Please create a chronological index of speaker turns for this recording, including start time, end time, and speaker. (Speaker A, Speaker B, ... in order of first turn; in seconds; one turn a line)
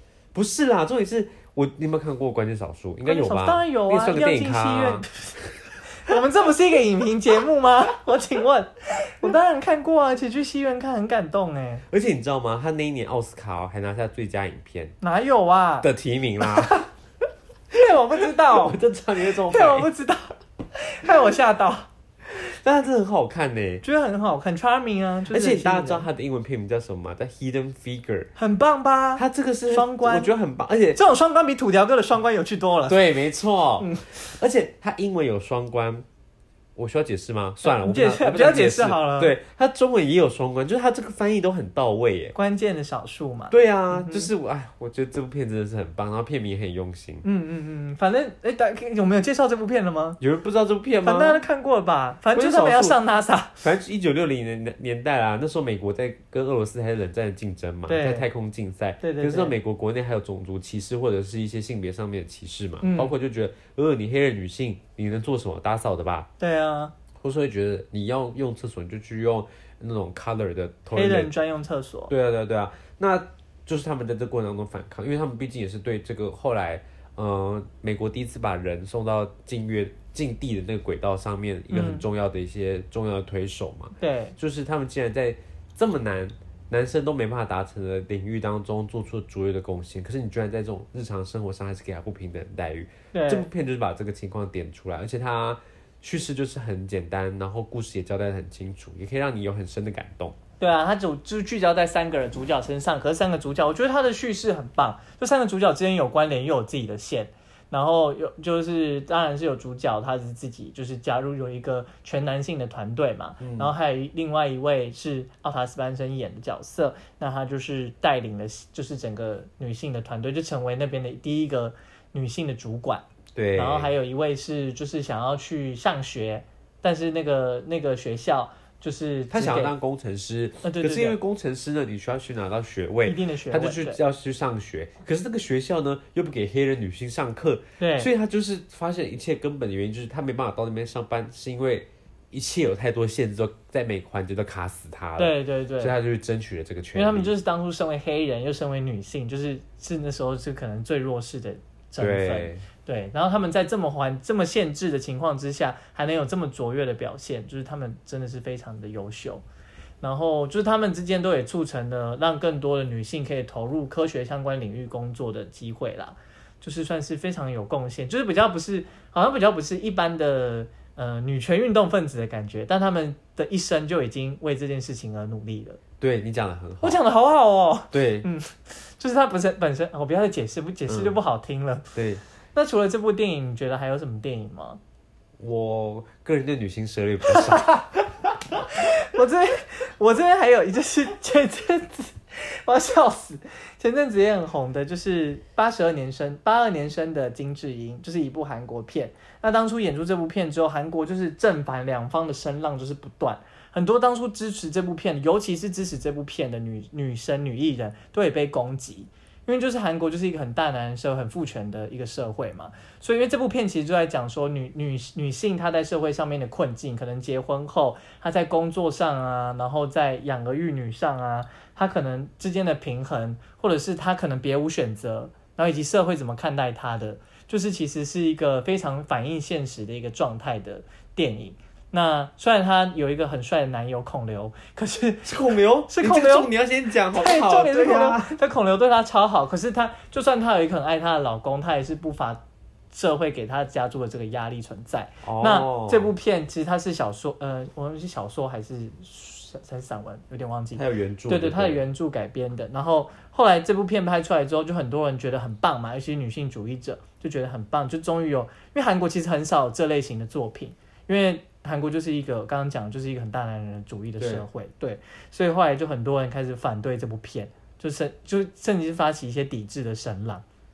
Speaker A: 0.3-5.1
Speaker B: 3.0-5.4
Speaker B: 6.0-11.8
Speaker A: 11.9-14.9
Speaker B: 15.0-15.9
Speaker A: 15.8-16.8
Speaker B: 16.4-16.9
Speaker B: 17.7-21.9
Speaker A: 18.2-19.9
Speaker A: 22.3-23.8
Speaker B: 23.8-26.1
Speaker A: 25.3-28.3
Speaker B: 28.4-30.3
Speaker A: 29.2-31.0
Speaker B: 30.9-33.0
Speaker A: 32.9-36.0
Speaker B: 33.8-34.3
Speaker A: 36.8-42.4
Speaker B: 37.6-39.3
Speaker B: 42.4-44.3
Speaker A: 43.5-47.2
Speaker B: 47.2-50.2
Speaker A: 50.2-51.4
Speaker B: 51.0-53.6
Speaker A: 52.4-53.0
Speaker A: 53.6-66.3
Speaker B: 57.9-58.3
Speaker B: 59.0-59.5
Speaker B: 62.8-63.1
Speaker B: 66.4-66.9
Speaker A: 67.2-71.3
Speaker B: 70.9-72.1
Speaker A: 72.1-100.4
Speaker B: 81.7-82.0
Speaker B: 84.0-84.3
Speaker B: 93.1-93.5
Speaker B: 100.6-129.7
Speaker A: 113.4-113.7
Speaker A: 123.4-124.0
Speaker A: 129.3-147.3
Speaker B: 130.6-131.2
Speaker B: 133.1-134.0
Speaker B: 137.8-138.1
Speaker B: 145.2-146.0
Speaker B: 146.9-159.4
Speaker A: 152.0-152.7
Speaker B: 160.0-175.8
Speaker A: 176.0-177.0
Speaker B: 176.8-181.9
Speaker A: 177.9-178.3
Speaker A: 180.9-181.2
Speaker A: 181.9-182.2
Speaker B: 182.6-184.8
Speaker A: 185.4-187.8
Speaker B: 187.3-187.7
Speaker B: 188.6-235.3
Speaker A: 235.2-238.4
Speaker B: 235.9-236.5
Speaker B: 237.1-242.4
Speaker B: 242.9-270.4
Speaker A: 245.2-246.1
Speaker A: 250.8-251.8
Speaker A: 264.2-264.5